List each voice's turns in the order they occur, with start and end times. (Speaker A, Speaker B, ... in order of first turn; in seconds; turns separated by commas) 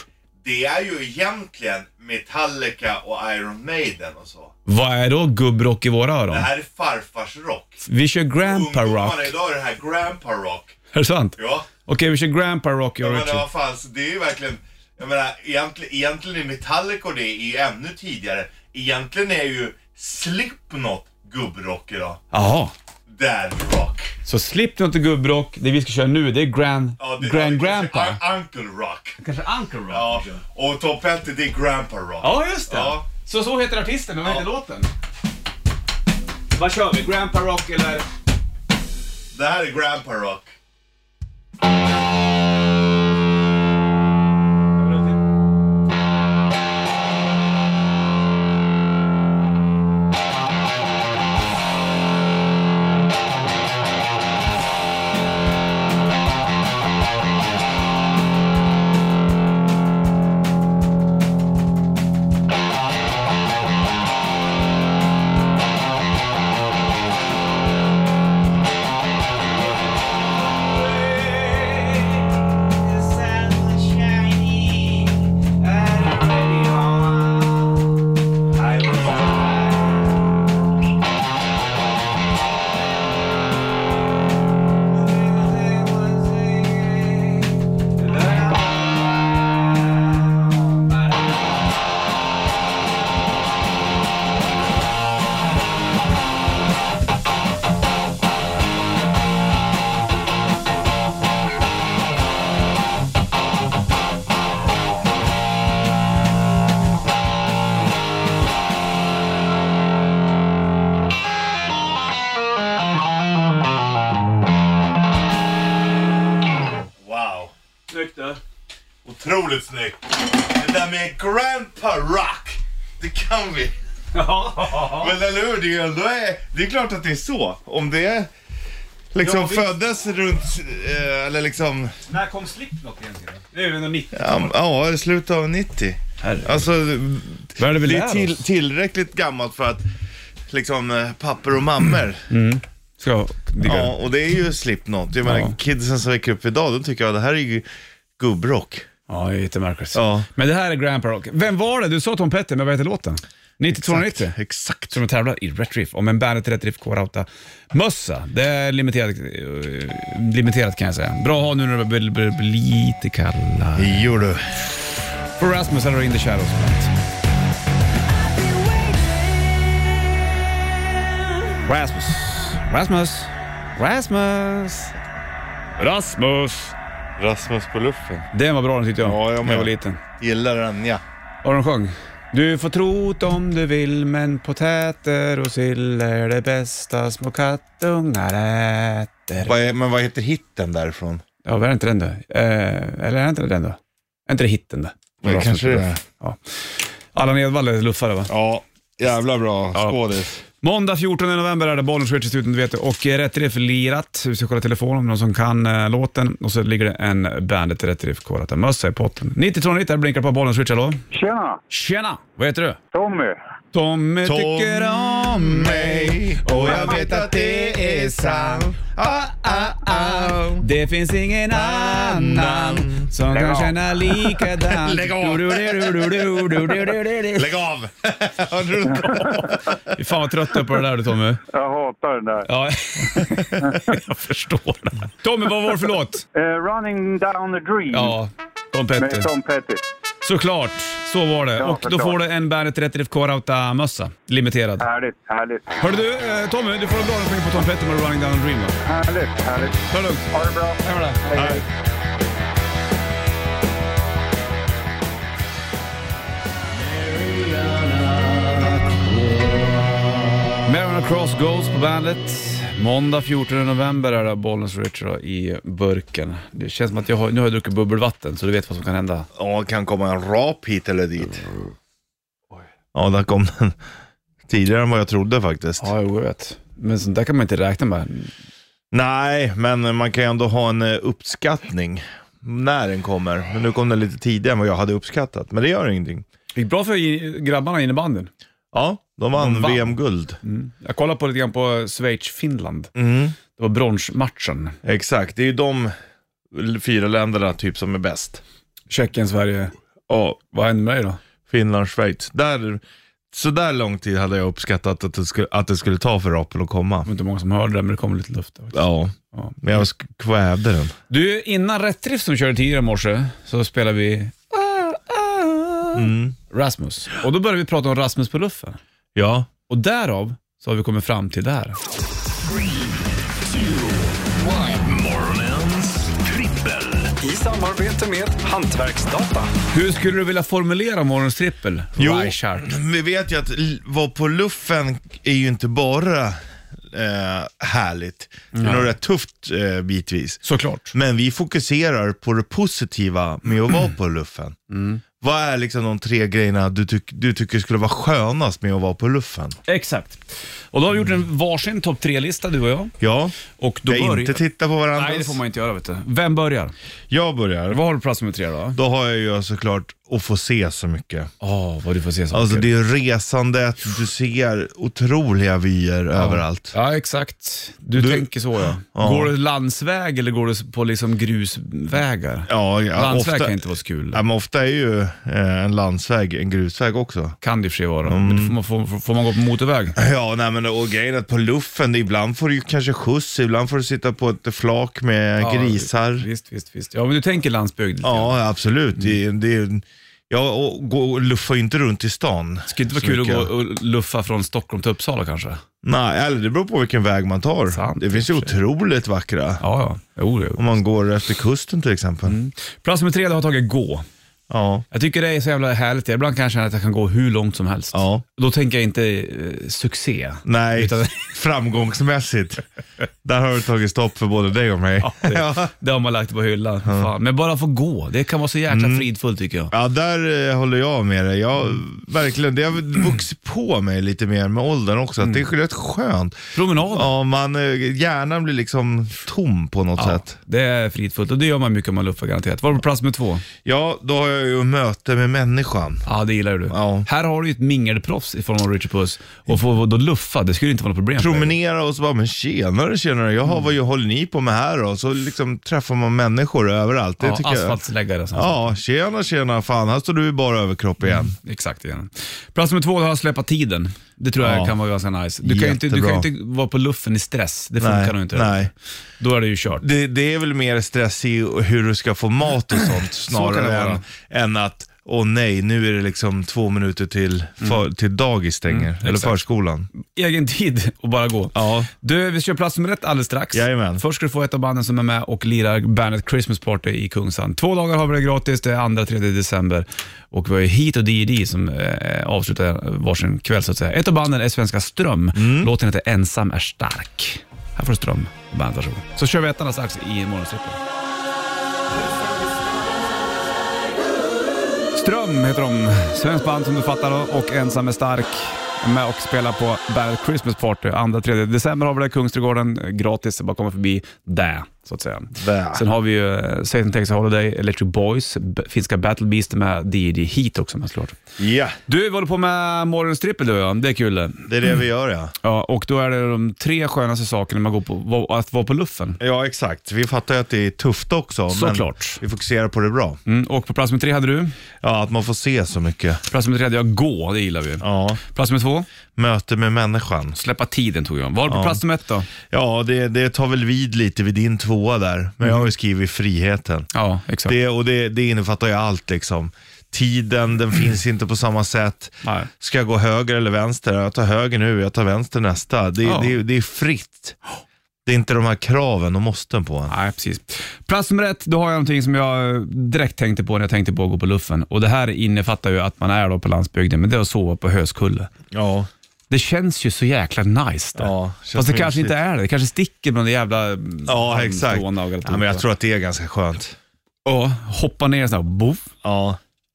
Speaker A: 0.4-4.5, Speaker B: 4.7-6.5, Speaker A: 6.3-7.8, Speaker B: 7.8-9.3, Speaker A: 8.4-10.8, Speaker B: 10.9-13.5, Speaker A: 11.4-11.7, Speaker A: 13.0-22.2, Speaker B: 22.3-22.7, Speaker A: 23.1-24.2, Speaker B: 24.2-28.2, Speaker A: 27.0-29.2, Speaker B: 29.2-30.4, Speaker A: 29.9-33.1, Speaker B: 32.2-34.9, Speaker B: 36.5-38.1, Speaker A: 39.3-40.5, Speaker B: 44.8-45.2, Speaker B: 70.4-77.9, Speaker B: 78.5-80.3, Speaker B: 84.8-91.6, Speaker A: 117.0-117.5, Speaker B: 117.9-118.4, Speaker A: 119.0-123.7, Speaker B: 124.1-125.1, Speaker A: 124.5-128.3, Speaker A: 129.1-131.9, Speaker B: 129.2-129.7, Speaker B: 132.1-134.5, Speaker A: 134.1-139.8, Speaker B: 136.2-136.6, Speaker B: 137.6-138.4, Speaker A: 140.5-142.2, Speaker B: 142.3-143.9, Speaker A: 143.6-147.7, Speaker B: 145.2-145.6, Speaker A: 148.2-148.9, Speaker B: 149.1-154.3, Speaker A: 149.9-150.3, Speaker A: 153.7-155.0, Speaker B: 154.9-164.1, Speaker A: 163.8-164.5, Speaker B: 165.4-166.9, Speaker B: 171.6-174.9, Speaker B: 175.8-176.8, Speaker A: 177.2-178.3, Speaker B: 178.3-180.0, Speaker A: 179.0-181.0, Speaker B: 181.4-189.5, Speaker A: 189.4-191.2, Speaker B: 191.4-198.3, Speaker A: 195.2-196.0, Speaker A: 198.3-200.4, Speaker B: 200.6-211.0, Speaker C: 211.1-211.6, Speaker B: 211.7-212.8, Speaker C: 212.9-213.4, Speaker B: 213.7-227.5, Speaker A: 214.2-220.6, Speaker A: 221.5-229.8, Speaker B: 229.9-231.4, Speaker C: 231.5-232.5, Speaker B: 232.4-236.2, Speaker A: 233.2-233.5, Speaker C: 236.3-238.2, Speaker B: 237.9-239.3, Speaker C: 239.0-239.8, Speaker B: 240.2-244.8, Speaker C: 241.6-242.2, Speaker C: 244.8-245.7, Speaker B: 245.8-248.8, Speaker C: 248.8-249.8, Speaker B: 249.9-250.3, Speaker C: 250.3-251.6, Speaker B: 250.8-251.6, Speaker A: 251.3-251.6, Speaker B: 260.6-269.3, Speaker A: 269.3-271.5, Speaker A: 272.9-273.8, Speaker A: 274.5-275.9, Speaker B: 275.8-278.3, Speaker A: 278.9-286.2, Speaker B: 286.5-288.3, Speaker A: 288.7-290.4, Speaker B: 289.3-292.9, Speaker A: 292.9-293.4, Speaker B: 293.5-294.8, Speaker A: 294.8-295.9, Speaker A: 296.5-298.4, Speaker B: 298.9-299.7, Speaker A: 300.1-300.4, Speaker B: 300.4-301.2, Speaker A: 301.5-307.1, Speaker B: 307.1-309.6, Speaker A: 308.7-310.9, Speaker B: 311.1-318.8, Speaker A: 315.9-316.3, Speaker A: 319.1-319.5, Speaker B: 319.7-321.8, Speaker D: 322.4-327.1, Speaker B: 327.2-332.8, Speaker A: 332.0-336.4, Speaker A: 336.9-344.6, Speaker B: 338.5-338.9, Speaker B: 340.4-340.9, Speaker B: 344.7-345.0, Speaker A: 345.2-349.6, Speaker B: 349.7-352.9, Speaker A: 353.0-353.3, Speaker B: 353.5-356.7, Speaker A: 353.9-355.4, Speaker A: 357.1-357.8, Speaker B: 357.7-358.8, Speaker A: 358.7-361.3, Speaker B: 361.4-362.7, Speaker A: 362.3-366.7, Speaker B: 366.1-374.2, Speaker A: 367.9-369.3, Speaker A: 372.5-377.4, Speaker B: 377.4-379.9, Speaker A: 378.1-378.5, Speaker A: 379.9-386.3, Speaker B: 385.4-388.4, Speaker A: 388.0-393.5, Speaker B: 392.7-395.6, Speaker A: 395.8-399.6, Speaker B: 397.7-398.5, Speaker B: 399.6-400.8, Speaker A: 400.6-402.4, Speaker B: 402.2-404.1, Speaker A: 404.5-404.8, Speaker B: 404.9-411.3, Speaker A: 407.9-408.2, Speaker A: 410.4-412.6, Speaker A: 413.2-415.7, Speaker B: 415.0-419.7, Speaker A: 416.8-417.1, Speaker A: 418.7-419.0, Speaker A: 419.7-430.3, Speaker B: 426.5-427.1, Speaker B: 429.9-433.4, Speaker A: 433.6-436.0, Speaker B: 436.1-441.5, Speaker A: 436.7-437.1, Speaker A: 441.2-447.8, Speaker B: 447.2-448.6, Speaker A: 448.3-451.4, Speaker B: 451.4-459.8, Speaker A: 454.4-454.7, Speaker A: 455.4-456.3, Speaker A: 457.8-458.7, Speaker A: 459.8-469.9, Speaker B: 463.3-464.0, Speaker B: 468.7-469.4, Speaker B: 470.0-490.8, Speaker A: 471.5-471.9, Speaker A: 473.5-474.0, Speaker A: 485.4-485.7, Speaker B: 494.9-511.2, Speaker A: 505.4-505.8, Speaker A: 511.4-511.8, Speaker B: 511.9-514.5, Speaker A: 514.5-515.3, Speaker B: 515.4-519.2, Speaker A: 519.2-523.2, Speaker B: 521.5-522.2, Speaker B: 523.3-524.5, Speaker A: 524.8-526.2, Speaker B: 526.3-528.9, Speaker A: 527.8-528.2, Speaker A: 529.1-530.4, Speaker B: 530.4-532.3, Speaker A: 531.5-531.8, Speaker A: 532.4-536.9, Speaker B: 536.9-537.5, Speaker A: 537.4-547.4, Speaker B: 542.2-542.5, Speaker B: 546.0-546.4, Speaker A: 548.0-549.9, Speaker B: 549.9-558.3, Speaker A: 558.5-558.9, Speaker B: 559.3-565.6, Speaker A: 561.0-562.1, Speaker A: 564.0-566.7, Speaker B: 567.2-568.9, Speaker A: 569.0-569.4